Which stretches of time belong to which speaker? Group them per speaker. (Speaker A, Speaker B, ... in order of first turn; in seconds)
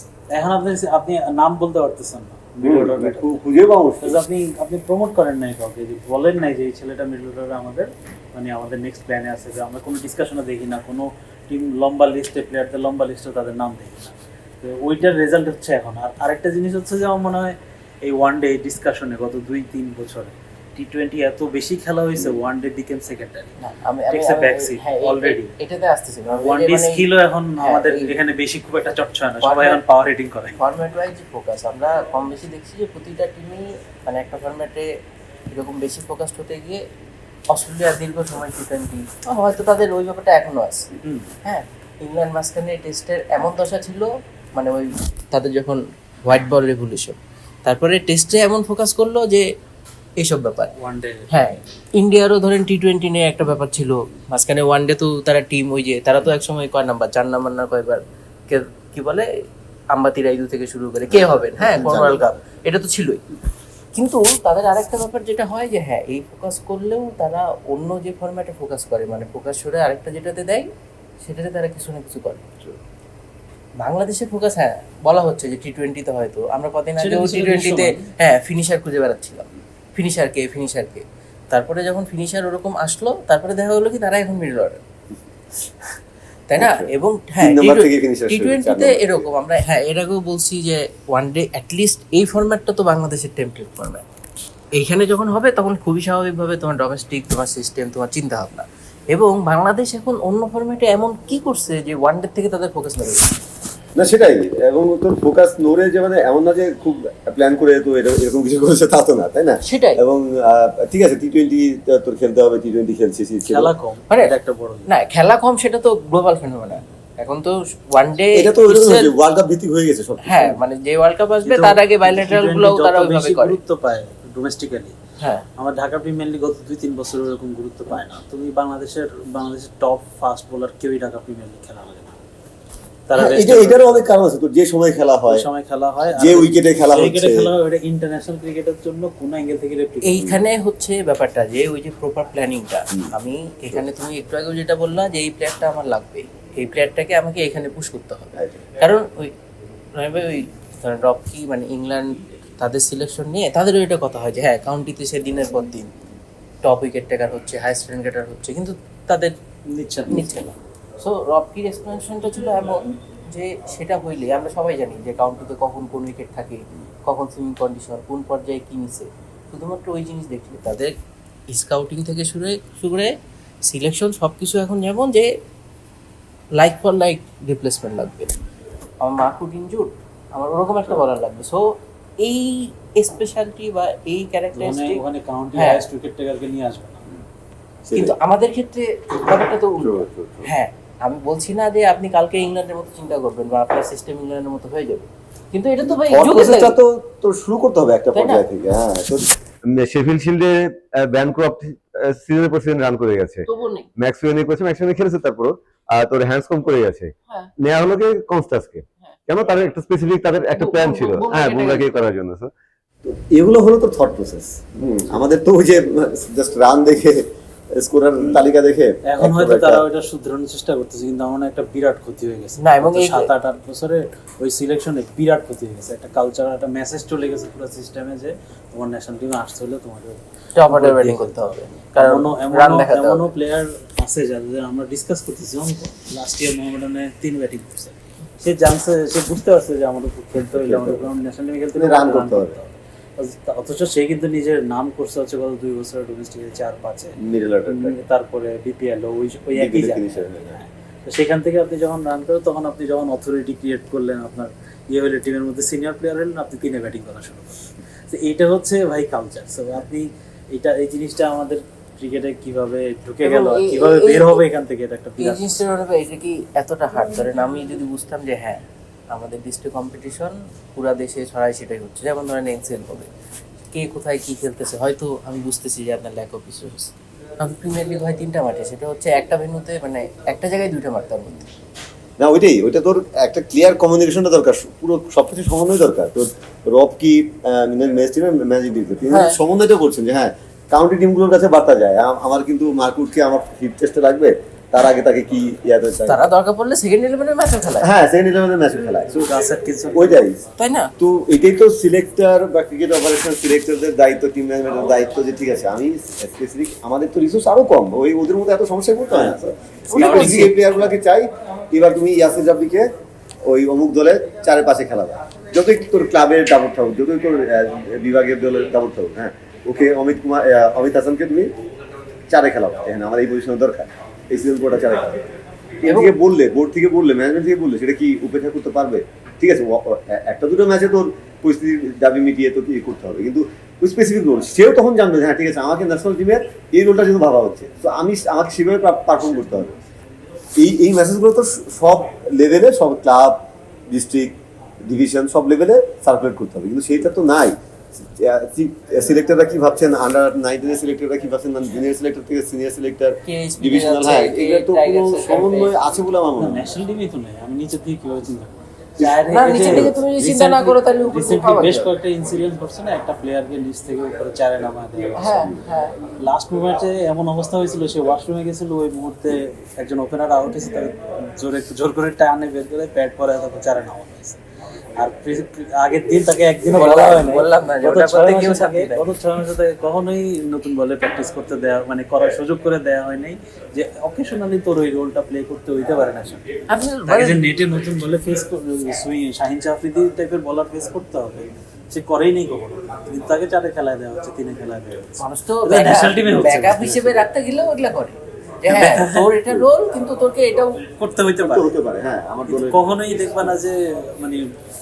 Speaker A: 0.3-3.4, 4.0-23.6, 24.1-25.5, 26.3-30.6, 41.0-41.3, 50.8-51.3, 77.0-78.1, 113.5-114.9, 121.4-125.0, 125.6-132.2, 133.1-134.1, 135.3-140.2, 159.7-160.3, 184.5-187.1, 219.0-231.4, 231.9-265.6, 299.2-300.2, 309.1-309.4, 309.9-310.5, 356.4-365.5, 366.2-374.4, 375.0-386.5, 387.1-397.2, 398.7-399.3, 401.0-401.7, 402.4-404.5
Speaker B: 2.6-4.2, 61.1-62.3, 86.6-89.2, 104.0-113.7, 118.3-120.6, 133.2-135.4, 136.1-137.5, 187.8-188.2, 189.8-190.5, 195.8-212.5, 213.0-219.8, 240.5-241.1, 241.7-242.5, 247.2-248.0, 249.5-250.6, 282.2-296.2, 297.8-299.3, 299.9-300.4, 301.0-312.9, 313.4-321.5, 322.3-325.2, 325.8-339.7, 340.5-356.7, 359.0-360.0, 401.4-402.9
Speaker C: 23.6-27.1, 27.6-28.2, 29.4-29.8, 30.5-34.9, 35.5-36.8, 37.5-40.9, 41.4-49.5, 50.2-50.7, 51.3-59.3, 59.9-63.2, 63.9-70.7, 71.2-72.5, 73.8-84.8, 86.5-94.0, 94.7-103.2, 109.6-110.0, 114.9-119.1, 120.2-123.6, 125.2-125.4, 140.0-149.3, 149.9-155.9, 156.6-159.3, 160.1-170.9, 171.5-173.1, 173.7-175.3, 176.6-178.3, 179.0-185.0, 185.6-185.8, 187.9-196.8, 198.1-198.4, 203.5-203.9, 210.5-212.0, 222.6-223.3, 230.6-233.3, 263.2-264.4, 265.2-273.1, 273.7-281.4, 289.1-289.4, 296.1-298.0, 300.6-300.9, 309.9-310.6, 325.8-326.1, 353.2-355.7, 359.3-361.9, 365.2-366.0, 376.7-379.1, 386.7-387.4, 395.2-400.8